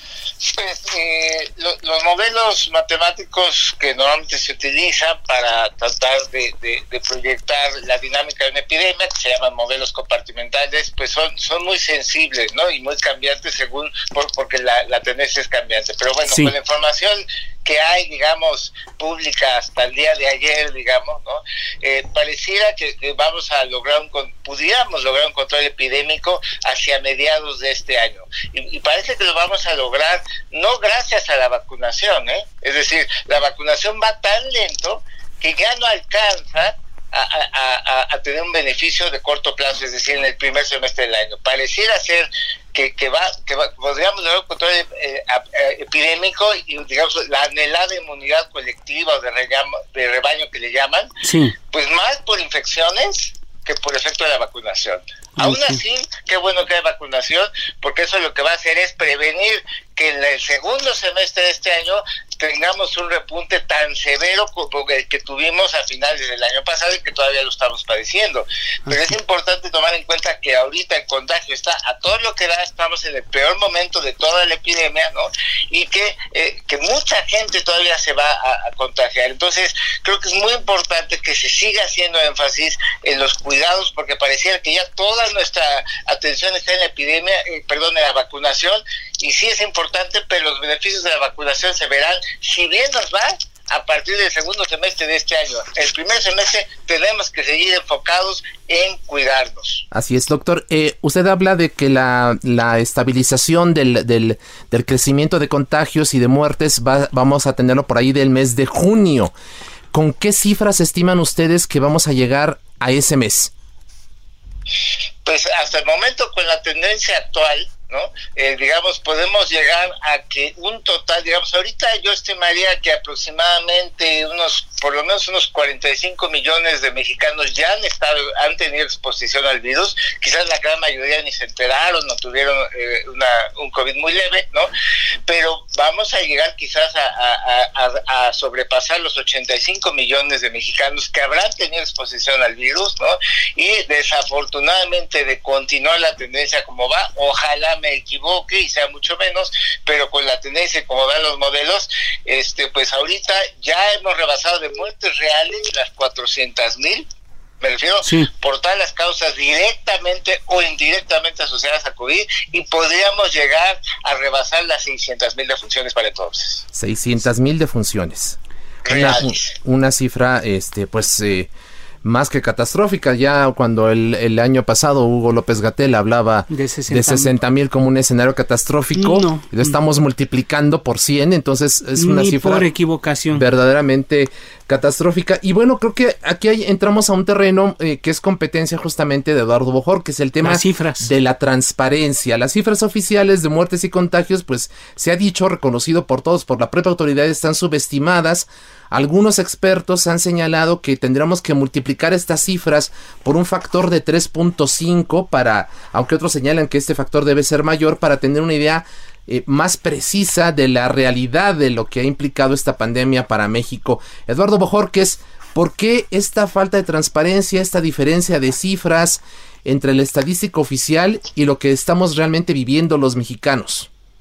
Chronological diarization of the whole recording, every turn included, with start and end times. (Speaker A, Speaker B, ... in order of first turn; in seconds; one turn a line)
Speaker A: 0.4-51.1
Speaker B: 16.3-16.5
Speaker B: 51.2-51.6
Speaker A: 51.7-99.8
Speaker B: 55.4-55.8
Speaker C: 99.9-109.3
Speaker C: 109.9-113.5
Speaker A: 115.2-134.7
Speaker A: 135.3-157.1
Speaker A: 157.6-166.7
Speaker B: 158.0-158.3
Speaker C: 166.7-168.4
Speaker A: 168.9-169.5
Speaker C: 168.9-171.5
Speaker C: 172.0-182.7
Speaker B: 176.5-177.3
Speaker B: 178.9-179.7
Speaker B: 182.0-183.4
Speaker C: 183.3-223.9
Speaker B: 190.4-191.1